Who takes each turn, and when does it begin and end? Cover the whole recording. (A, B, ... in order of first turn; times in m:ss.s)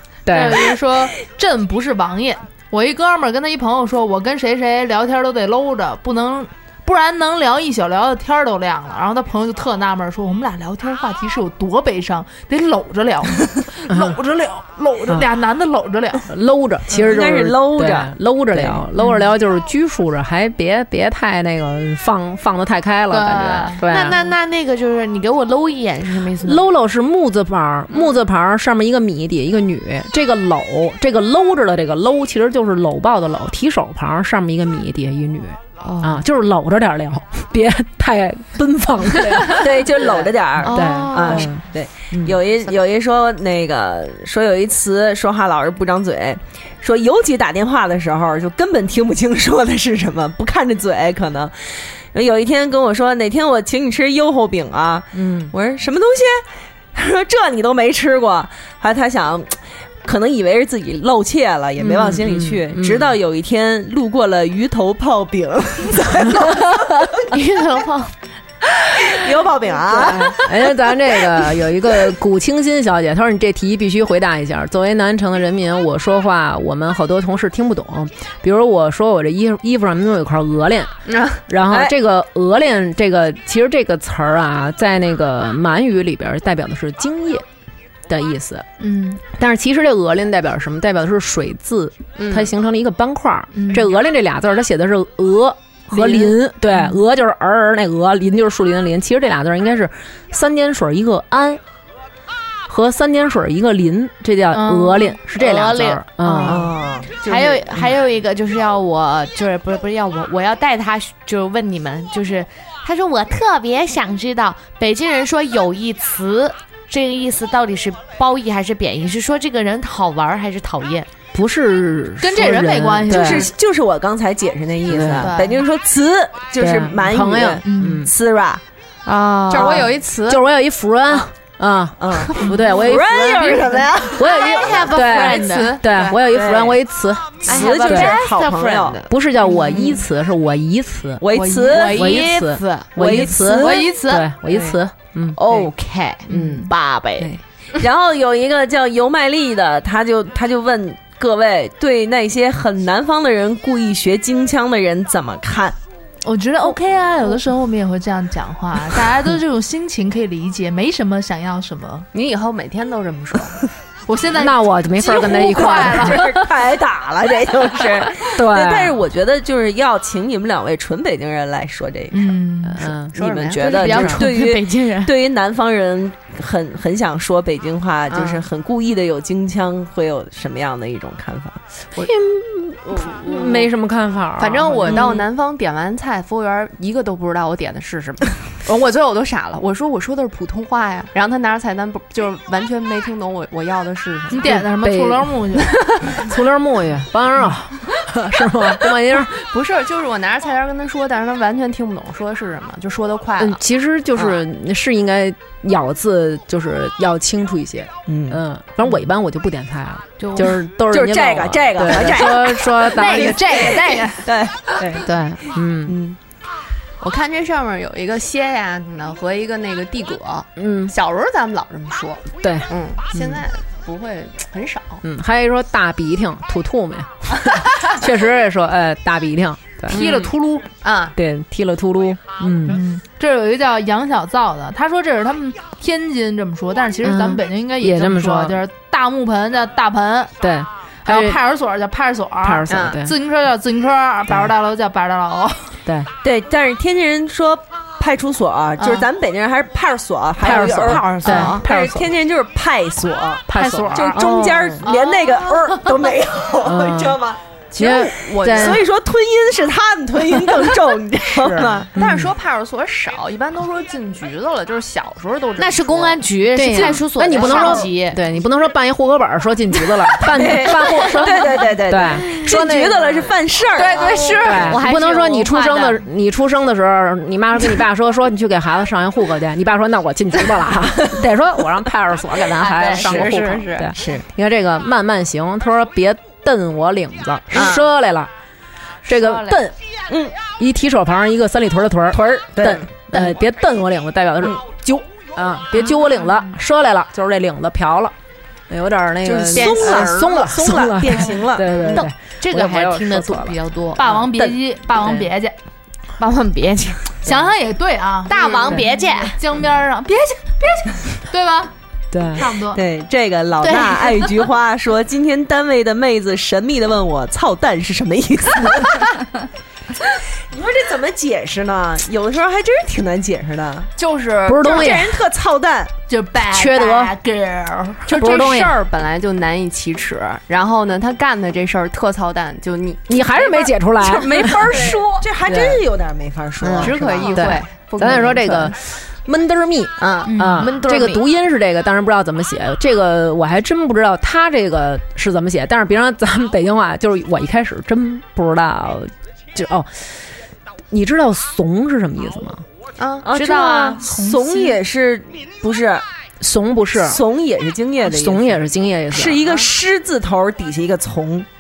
0:00.3-0:00.7 A
0:00.3-0:16.3 B
0:13.9-0:14.2 A
0:16.3-0:24.2 A
0:16.9-0:18.8 C
0:23.6-0:26.6 D
0:26.4-0:42.4 A
0:35.8-0:36.2 D
0:39.4-0:56.4 C
0:40.6-0:41.5 D
0:55.1-0:55.5 A
0:57.0-1:07.2 C
1:01.8-1:03.2 A
1:07.3-1:08.1 D
1:08.8-1:10.4 C
1:09.9-1:20.9 A
1:21.1-1:21.4 E
1:21.5-1:27.5 A
1:28.1-1:28.7 A
1:28.8-1:29.2 B
1:29.3-1:41.6 A
1:32.2-1:32.5 E
1:33.5-1:33.9 B
1:36.0-1:37.0 B
1:42.7-1:46.7 A
1:44.5-1:45.0 B
1:45.4-1:46.6 D
1:46.4-1:47.8 C
1:47.1-2:01.1 D
2:01.3-2:03.5 A
2:02.2-2:03.5 B
2:03.1-2:08.6 C
2:04.9-2:05.3 A
2:06.6-2:08.1 A
2:07.6-2:08.0 B
2:09.0-2:09.9 D
2:09.5-2:10.4 E
2:10.3-2:18.2 A
2:12.0-2:15.1 C
2:14.3-2:16.1 D
2:15.0-2:16.2 E
2:16.2-2:16.8 C
2:17.5-2:19.1 C
2:17.5-2:19.0 D
2:17.5-2:18.8 E
2:19.1-2:25.4 A
2:21.2-2:22.3 C
2:21.6-2:22.0 B
2:21.6-2:24.2 D
2:23.0-2:23.9 C
2:25.4-2:27.3 D
2:26.3-2:26.7 A
2:26.3-2:26.7 B
2:27.8-2:35.8 C
2:36.2-2:42.1 B
2:42.1-2:43.6 E
2:44.1-2:46.2 B
2:44.4-2:46.5 A
2:45.0-2:52.3 C
2:48.3-2:49.0 A
2:52.1-2:52.9 B
2:52.6-2:53.2 A
2:53.1-2:54.1 E
2:53.1-3:01.6 C
2:53.6-2:55.1 D
2:53.8-2:54.2 A
2:58.1-2:58.4 E
3:02.0-3:05.1 A
3:02.9-3:03.7 E
3:04.4-3:14.6 E
3:14.3-3:16.0 B
3:14.4-3:19.3 A
3:19.1-3:23.6 E
3:23.4-3:33.9 A
3:28.1-3:28.4 C
3:30.2-3:30.5 D
3:30.9-3:32.9 C
3:32.9-3:34.2 B
3:33.8-3:34.7 C
3:34.8-3:36.0 A
3:35.9-3:36.2 C
3:37.0-3:45.0 E
3:40.6-3:40.9 A
3:42.4-3:43.4 A
3:45.0-3:50.3 A
3:49.9-3:51.2 E
3:50.0-3:50.7 B
3:51.1-3:52.8 A
3:52.7-4:00.3 B
3:57.0-3:58.6 A
4:00.4-4:01.4 A
4:01.0-4:05.7 B
4:02.4-4:03.2 A
4:02.7-4:03.0 E
4:04.3-4:04.5 A
4:05.8-4:06.1 A
4:06.2-4:21.9 C
4:08.8-4:09.1 B
4:10.4-4:12.1 A
4:10.5-4:11.6 E
4:13.5-4:14.8 A
4:13.5-4:14.1 B
4:14.8-4:15.2 B
4:16.6-4:17.2 A
4:17.8-4:18.8 A
4:17.8-4:18.8 E
4:21.4-4:22.3 A
4:21.4-4:27.9 E
4:25.6-4:28.2 D
4:26.6-4:33.1 A
4:30.2-4:34.4 C
4:33.8-4:34.7 E
4:34.0-4:34.4 B
4:34.0-4:36.0 D
4:34.4-4:48.3 A
4:42.6-4:44.0 E
4:43.0-4:43.4 C
4:44.0-4:44.2 C
4:47.6-4:47.8 E
4:49.0-4:49.8 A
4:50.1-4:50.3 C
4:50.6-4:58.2 A
4:52.1-4:52.9 C
4:58.7-5:03.6 A
4:59.2-5:02.0 C
4:59.9-5:00.3 D
5:01.9-5:04.0 D
5:04.0-5:05.6 B
5:05.0-5:05.3 A
5:06.2-5:07.2 D
5:07.2-5:11.7 B
5:08.3-5:09.4 D
5:12.1-5:12.5 A
5:12.4-5:12.8 B
5:12.7-5:19.1 C
5:13.6-5:14.3 D
5:20.5-5:23.9 C
5:24.0-5:24.4 B
5:24.0-5:24.9 E
5:24.4-5:25.2 A
5:24.6-5:25.9 C
5:26.1-5:28.2 B
5:26.4-5:27.2 A
5:28.0-5:28.8 A
5:28.1-5:33.7 E
5:33.1-5:34.8 A
5:34.0-5:37.4 C
5:34.5-5:35.1 E
5:35.4-5:35.8 A
5:36.6-5:50.1 A
5:36.8-5:38.8 E
5:40.0-5:40.3 E
5:40.3-5:40.7 B
5:40.4-5:41.2 D
5:50.9-5:52.6 A
5:53.0-5:53.3 E
5:53.2-5:56.0 C
5:53.3-5:54.0 D
5:53.9-5:54.8 B
5:56.4-5:57.2 A
5:57.0-6:01.5 C
5:58.0-5:59.4 A